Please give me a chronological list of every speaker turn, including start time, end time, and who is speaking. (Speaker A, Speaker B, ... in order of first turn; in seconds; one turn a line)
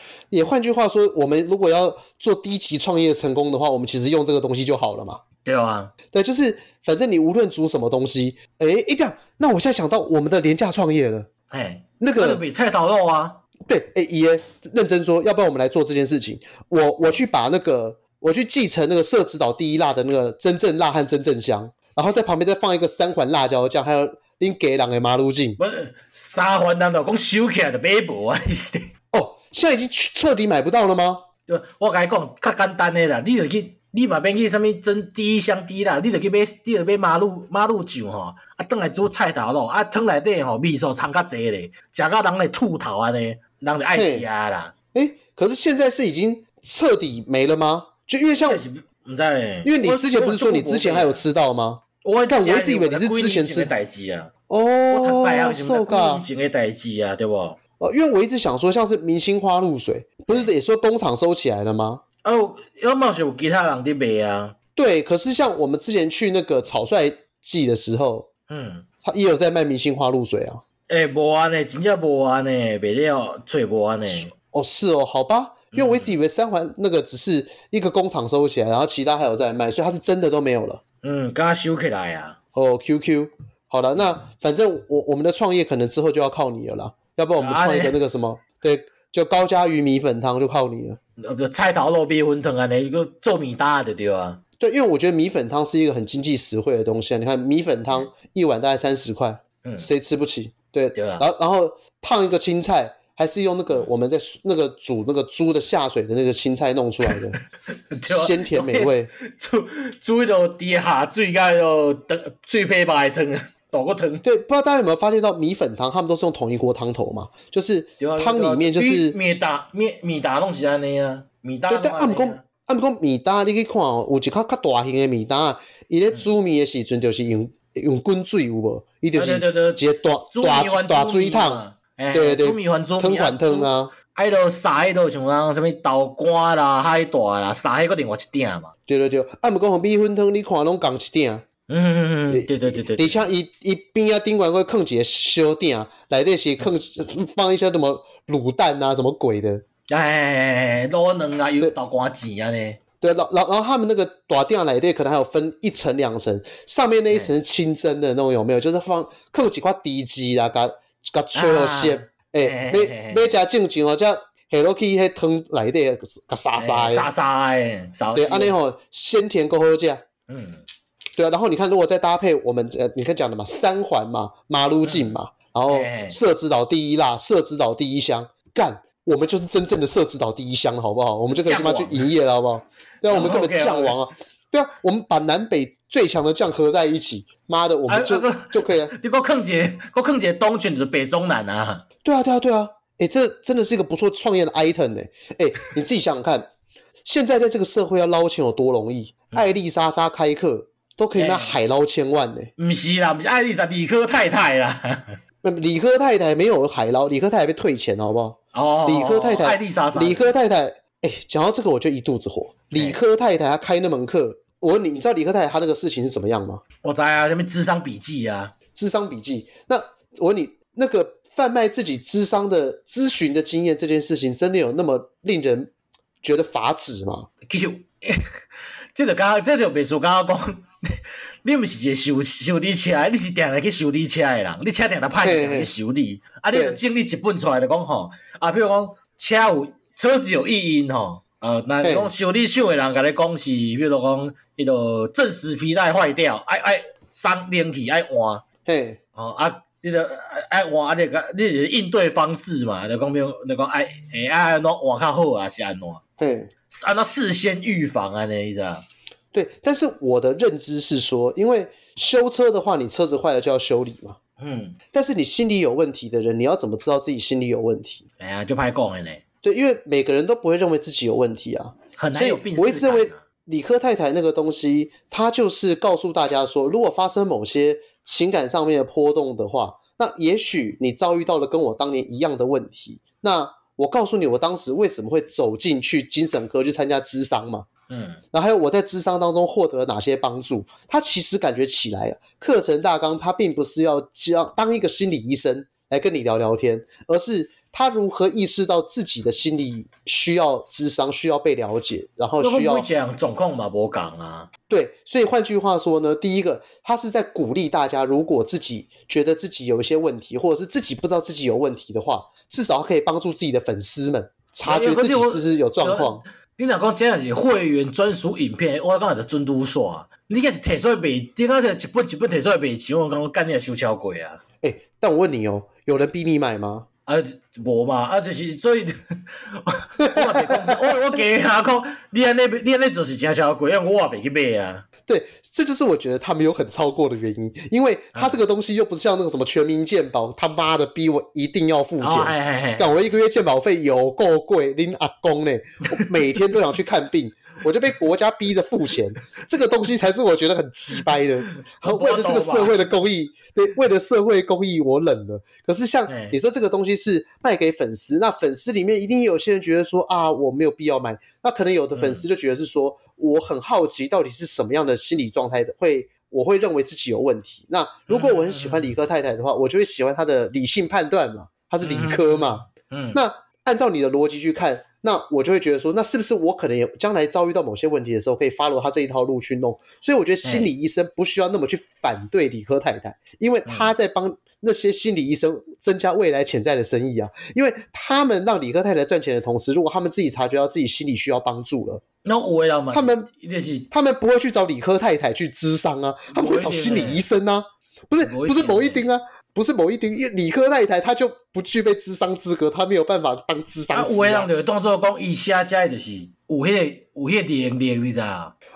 Speaker A: 0.3-5.2
Speaker B: 5.4-5.9
Speaker A: 6.1-11.3
Speaker B: 11.5-13.4
Speaker A: 12.0-12.4
Speaker A: 13.7-25.6
Speaker B: 25.6-28.9
Speaker A: 29.1-31.2
Speaker B: 31.5-44.7
Speaker A: 43.9-44.2
Speaker A: 44.9-48.6
Speaker B: 48.4-51.2
Speaker A: 49.6-53.7
Speaker B: 52.0-54.3
Speaker A: 54.5-56.2
Speaker B: 54.9-57.6
Speaker A: 57.8-62.0
Speaker B: 62.2-64.5
Speaker A: 64.8-68.3
Speaker B: 68.5-68.8
Speaker A: 69.0-70.6
Speaker B: 70.9-74.3
Speaker A: 74.5-80.8
Speaker B: 75.7-76.1
Speaker B: 81.0-82.4
Speaker A: 82.5-91.0
Speaker B: 87.4-88.0
Speaker B: 91.2-94.4
Speaker A: 94.6-107.4
Speaker B: 100.9-101.2
Speaker B: 107.9-114.2
Speaker A: 108.1-109.1
Speaker A: 114.2-119.1
Speaker B: 118.0-122.4
Speaker A: 121.7-131.6
Speaker B: 129.1-138.7
Speaker A: 132.1-133.9
Speaker A: 138.9-141.4
Speaker B: 141.7-143.3
Speaker A: 142.3-149.6
Speaker B: 149.9-152.8
Speaker A: 153.0-167.1
Speaker B: 161.3-163.3
Speaker B: 166.6-168.5
Speaker A: 168.1-170.0
Speaker B: 170.3-170.6
Speaker A: 171.2-188.9
Speaker B: 174.8-175.1
Speaker B: 175.7-176.2
Speaker B: 181.3-182.1
Speaker B: 183.1-184.0
Speaker B: 187.9-191.8
Speaker A: 192.0-196.5
Speaker A: 197.0-202.5
Speaker B: 201.1-201.6
Speaker B: 202.6-205.2
Speaker A: 205.4-216.6
Speaker B: 208.5-210.3
Speaker B: 212.7-213.0
Speaker B: 216.8-218.5
Speaker A: 218.7-225.7
Speaker A: 226.2-227.3
Speaker B: 227.5-228.2
Speaker B: 228.9-230.6
Speaker B: 231.4-248.4
Speaker A: 235.2-235.7
Speaker A: 236.5-236.8
Speaker A: 241.8-242.1
Speaker A: 248.7-249.0
Speaker B: 249.2-256.0
Speaker A: 256.2-256.5
Speaker B: 256.7-258.8
Speaker A: 259.3-264.2
Speaker B: 264.4-264.8
Speaker A: 264.9-268.1
Speaker B: 268.2-269.2
Speaker A: 269.4-287.6
Speaker B: 272.0-273.2
Speaker B: 287.9-288.2
Speaker A: 288.3-302.9
Speaker B: 302.4-304.5
Speaker A: 304.7-316.2
Speaker B: 314.6-324.4
Speaker A: 324.6-326.9
Speaker B: 327.1-328.9
Speaker B: 329.4-334.8
Speaker A: 330.0-330.8
Speaker A: 335.1-392.0
Speaker B: 338.1-338.4
Speaker B: 342.0-342.9
Speaker B: 351.8-352.8
Speaker B: 356.1-356.4
Speaker B: 361.9-362.2
Speaker B: 368.1-368.9
Speaker B: 371.8-373.2
Speaker B: 380.4-380.7
Speaker B: 383.6-383.9
Speaker B: 392.2-393.9
Speaker A: 392.9-393.3
Speaker A: 393.9-404.5
Speaker B: 396.3-397.2
Speaker B: 398.2-399.1
Speaker B: 403.9-408.5